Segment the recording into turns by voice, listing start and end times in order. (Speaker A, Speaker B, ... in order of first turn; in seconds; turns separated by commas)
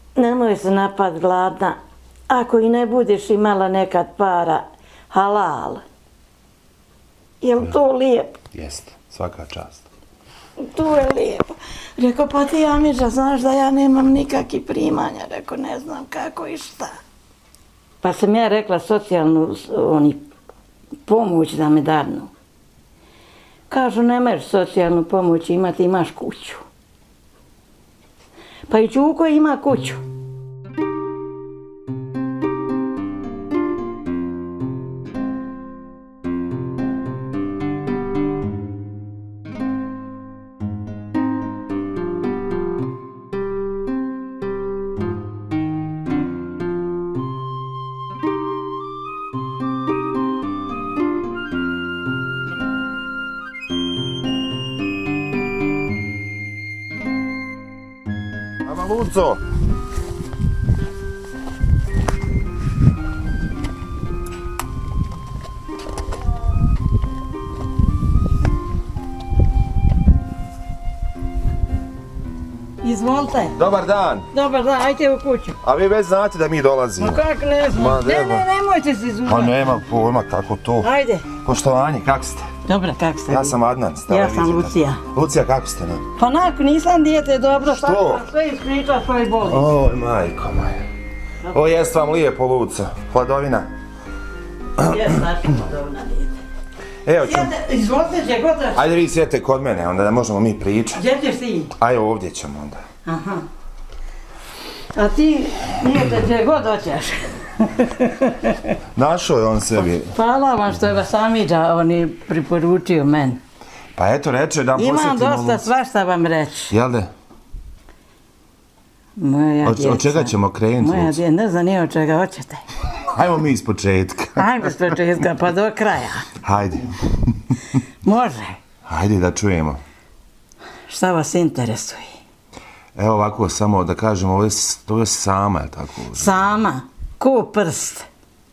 Speaker A: 0.2-1.8, Speaker A: 2.3-5.8, Speaker A: 7.4-8.4, Speaker B: 8.5-9.9, Speaker A: 10.6-16.9, Speaker A: 18.0-20.2, Speaker A: 21.1-22.3, Speaker A: 23.7-26.6, Speaker A: 28.7-30.0, Speaker B: 58.6-59.4, Speaker A: 72.8-73.6, Speaker B: 73.6-74.3, Speaker A: 74.3-75.6, Speaker B: 75.6-78.5, Speaker A: 77.0-79.8, Speaker B: 79.3-82.5, Speaker A: 80.8-81.3, Speaker A: 82.7-85.0, Speaker B: 83.3-86.0, Speaker A: 86.2-89.7, Speaker B: 87.6-88.3, Speaker B: 89.5-90.9, Speaker B: 91.5-93.7, Speaker A: 94.8-96.4, Speaker B: 97.0-97.5, Speaker A: 97.2-98.8, Speaker B: 98.8-101.0, Speaker A: 101.0-101.7, Speaker B: 101.8-102.8, Speaker A: 103.0-103.5, Speaker A: 104.9-108.8, Speaker B: 108.9-110.2, Speaker A: 109.8-113.4, Speaker B: 114.0-115.6, Speaker A: 114.8-116.8, Speaker B: 116.7-117.1, Speaker A: 119.2-122.7, Speaker B: 119.6-121.2, Speaker B: 123.0-125.0, Speaker A: 124.4-126.3, Speaker B: 126.4-127.5, Speaker A: 128.0-128.6, Speaker B: 128.9-129.8, Speaker A: 130.9-132.1, Speaker B: 132.9-136.4, Speaker A: 136.1-138.1